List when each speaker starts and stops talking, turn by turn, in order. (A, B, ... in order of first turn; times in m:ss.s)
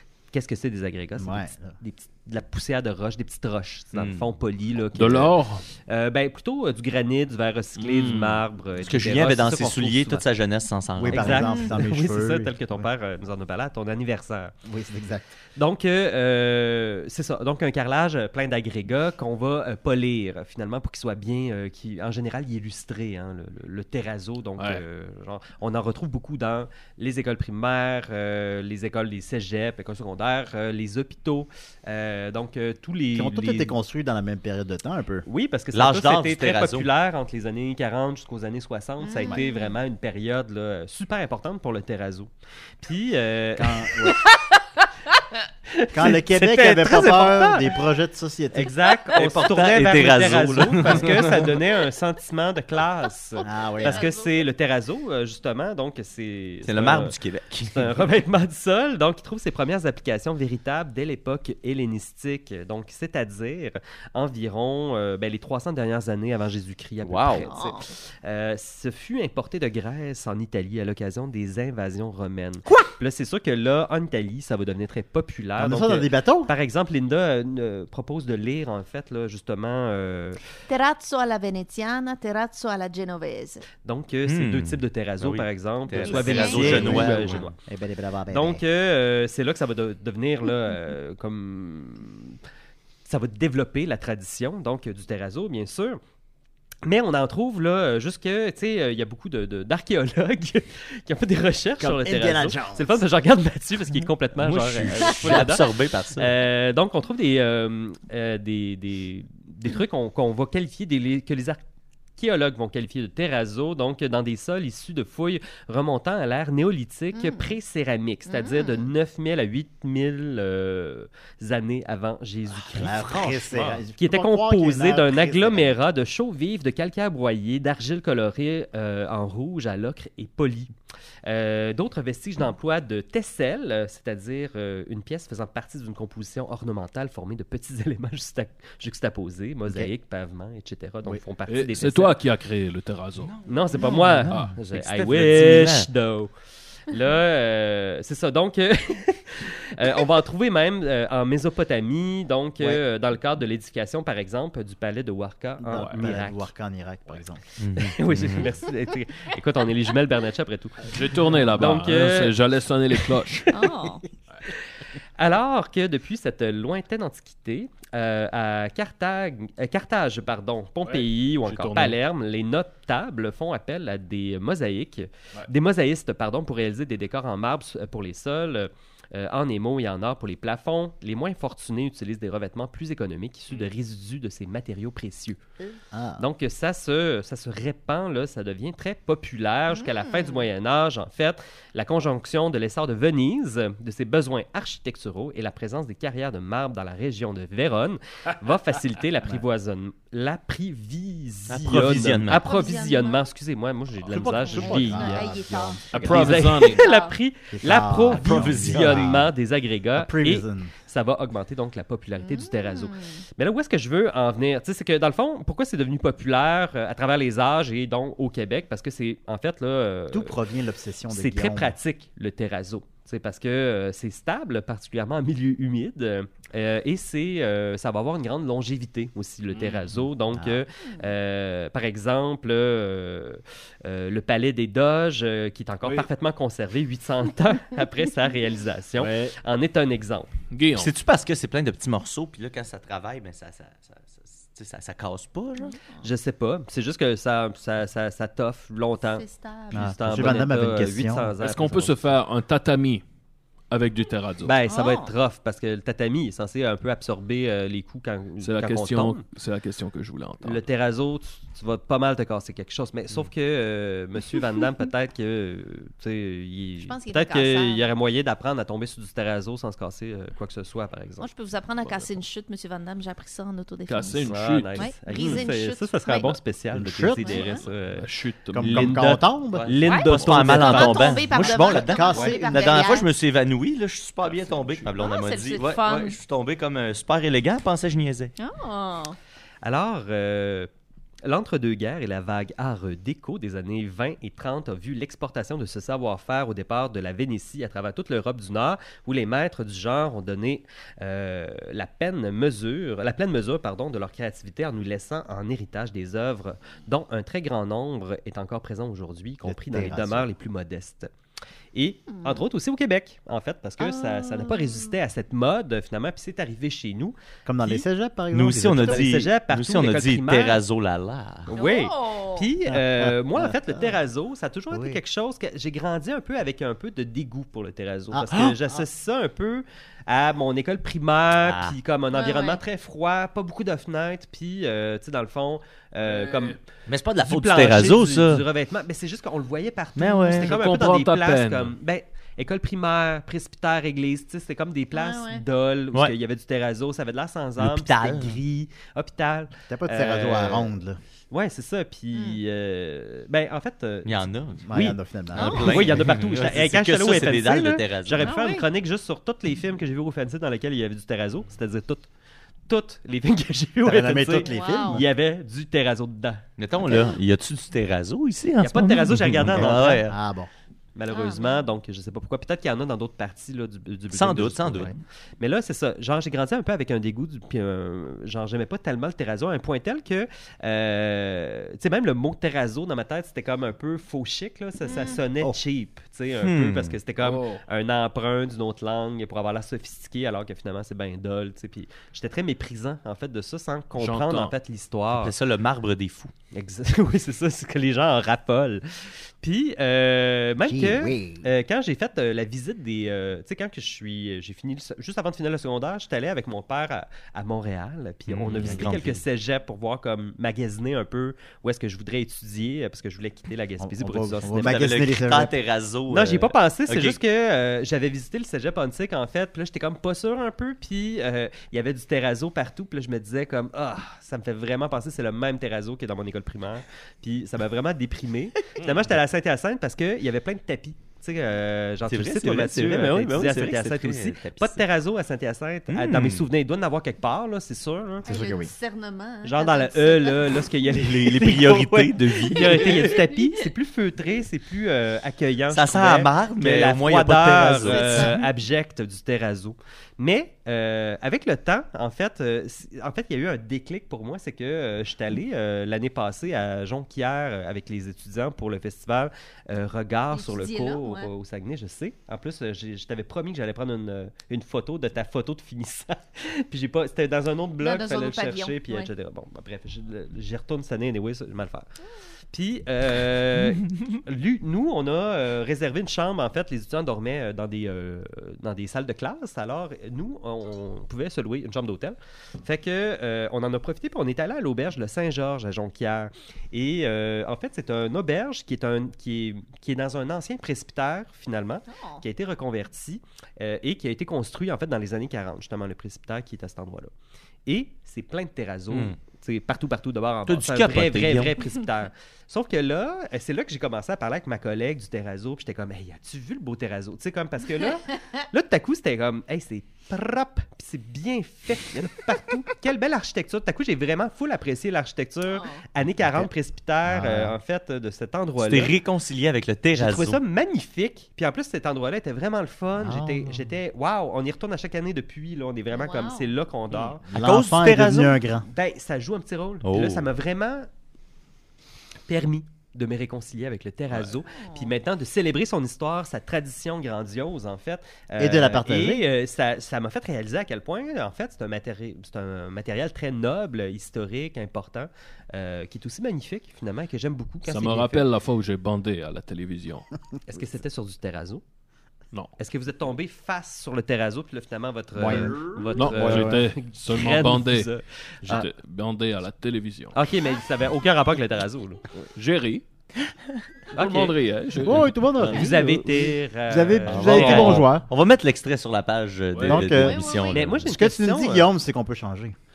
0:00.3-0:10.3 A
0:01.2-0:01.8 B
0:04.0-0:04.3 C
0:04.9-0:05.6 D
0:07.8-0:08.4 D
0:08.8-0:11.4 C
0:11.0-0:12.9 B
0:11.1-0:14.5 A
0:14.6-0:15.3 B
0:15.6-0:33.8 A
0:33.1-0:35.2 B
0:35.3-0:42.3 A
0:35.7-0:36.9 C
0:39.0-0:39.8 E
0:42.8-0:44.3 A
0:43.6-0:44.2 B
0:45.7-0:47.8 A
0:45.9-0:48.8 B
0:48.5-0:57.1 A
0:49.2-0:51.3 C
0:53.4-0:54.5 E
0:53.4-0:54.1 B
0:56.6-0:58.0 C
0:57.6-1:20.4 A
1:07.0-1:07.5 C
1:07.5-1:07.9 E
1:15.6-1:16.5 B
1:20.7-1:23.6 E
1:23.8-1:27.6 A
1:24.3-1:27.5 C
1:26.0-1:26.9 E
1:26.2-1:28.6 B
1:28.3-1:32.4 A
1:33.1-1:36.0 A
1:36.8-1:51.6 A
1:41.8-1:43.0 B
1:44.4-1:46.3 C
1:52.2-2:10.7 A
1:57.1-1:57.5 E
1:58.3-1:58.9 E
2:02.5-2:05.8 B
2:11.2-2:22.2 A
2:21.5-2:23.4 D
2:23.3-2:25.9 C
2:23.4-2:26.3 A
2:24.2-2:24.6 D
2:26.9-2:36.5 A
2:35.6-2:37.4 B
2:35.8-2:36.1 D
2:37.6-2:38.5 C
2:37.7-2:42.4 A
2:40.8-2:43.5 D
2:42.9-2:43.5 A
2:43.5-2:44.1 E
2:44.5-3:05.4 A
2:50.8-2:52.0 D
3:05.6-3:06.2 B
3:06.2-3:25.2 A
3:09.7-3:10.5 E
3:21.5-3:22.4 C
3:22.3-3:23.2 E
3:24.1-3:26.2 B
3:24.4-3:27.2 E
3:25.9-3:26.8 D
3:25.9-3:40.4 A
3:27.5-3:29.3 B
3:28.1-3:29.2 C
3:29.9-3:30.7 B
3:32.2-3:33.2 E
3:40.1-3:41.8 B
3:41.1-4:00.3 A
3:49.5-3:50.1 D
3:50.3-3:50.6 B
3:55.8-3:56.1 D
3:59.0-3:59.4 D
4:00.5-4:00.9 D
4:00.8-4:05.8 C
4:06.0-4:12.1 A
4:09.1-4:10.5 E
4:09.7-4:11.4 B
4:11.4-4:13.0 D
4:13.7-4:14.6 D
4:14.4-4:19.3 A
4:14.6-4:15.1 E
4:18.4-4:20.6 D
4:20.4-4:31.3 A
4:26.8-4:27.9 E
4:31.2-4:36.4 E
4:33.9-4:35.4 D
4:34.3-4:41.1 A
4:36.7-4:37.5 B
4:37.2-4:37.6 E
4:38.0-4:39.0 D
4:38.5-4:40.2 B
4:39.5-4:48.3 C
4:39.8-4:43.1 E
4:41.4-4:42.7 B
4:44.2-4:44.9 D
4:45.0-4:46.2 E
4:48.4-4:49.2 E
4:49.6-4:50.7 A
4:51.2-5:11.1 A
5:09.4-5:10.3 B
5:11.8-5:17.8 A
5:12.1-5:12.4 E
5:13.8-5:14.9 E
5:17.5-5:19.1 B
5:18.3-5:21.6 C
5:18.8-5:20.6 A
5:21.5-5:22.5 E
5:21.5-5:36.6 A
5:22.7-5:24.0 B
5:24.7-5:25.0 B
5:28.1-5:28.5 B
5:31.4-5:31.8 C
5:32.1-5:32.6 E
5:36.0-5:36.6 D
5:36.9-5:38.4 C
5:37.2-5:50.7 A
5:40.0-5:40.5 C
5:40.4-5:41.7 D
5:44.9-5:45.4 E
5:47.6-5:48.4 C
5:49.7-5:51.0 B
5:51.3-5:55.0 A
5:52.1-5:52.4 E
5:54.1-5:54.7 C
5:54.7-5:55.9 B
5:55.3-5:58.4 C
5:55.4-5:55.7 E
5:55.6-6:02.1 A
5:58.2-5:58.7 E
6:02.7-6:06.4 A
6:03.8-6:05.1 B
6:04.4-6:05.0 E
6:06.6-6:10.2 C
6:08.6-6:10.0 A
6:09.4-6:10.5 B
6:11.0-6:35.3 A
6:11.1-6:11.6 E
6:14.1-6:15.0 C
6:24.8-6:25.2 E
6:26.4-6:27.0 C
6:27.2-6:27.6 D
6:34.0-6:34.5 D
6:35.1-6:36.3 C
6:36.5-6:54.8 A
6:40.6-6:41.5 B
6:48.3-6:49.2 C
6:53.8-6:55.6 B
6:54.6-6:57.2 C
6:56.1-7:18.3 A
7:08.8-7:09.1 D
7:12.1-7:14.8 C
7:15.9-7:16.5 C
7:18.2-7:20.7 E
7:18.3-7:18.7 B
7:19.4-7:51.9 A
7:21.0-7:23.0 C
7:22.6-7:23.5 E
7:25.7-7:28.5 C
7:27.9-7:28.3 E
7:40.3-7:41.3 E
7:47.8-7:49.1 E
7:52.5-8:17.1 A
8:11.9-8:12.2 E
8:17.7-8:39.0 A
8:18.9-8:19.2 C
8:20.5-8:21.6 C
8:35.5-8:35.8 E
8:37.1-8:37.5 B
8:38.6-8:40.4 C
8:40.0-8:47.3 A
8:43.0-8:43.7 B
8:45.9-8:46.5 E
8:47.3-8:48.4 C
8:47.3-8:48.7 B
8:48.6-8:50.9 A
8:49.8-8:50.3 C
8:52.3-9:08.3 A
8:54.5-8:54.9 E
8:58.4-8:59.3 B
9:07.6-9:10.1 D
9:10.5-9:11.6 A
9:12.6-9:18.0 A
9:15.2-9:16.7 B
9:15.3-9:17.9 D
9:18.4-9:20.2 D
9:20.1-9:22.0 A
9:22.2-9:22.8 D
9:23.9-9:24.4 A
9:24.0-9:25.1 D
9:24.8-9:28.1 B
9:25.4-9:27.9 A
9:27.1-9:30.8 C
9:29.5-9:29.9 D
9:29.6-9:32.6 B
9:29.9-9:30.7 E
9:30.5-9:31.7 A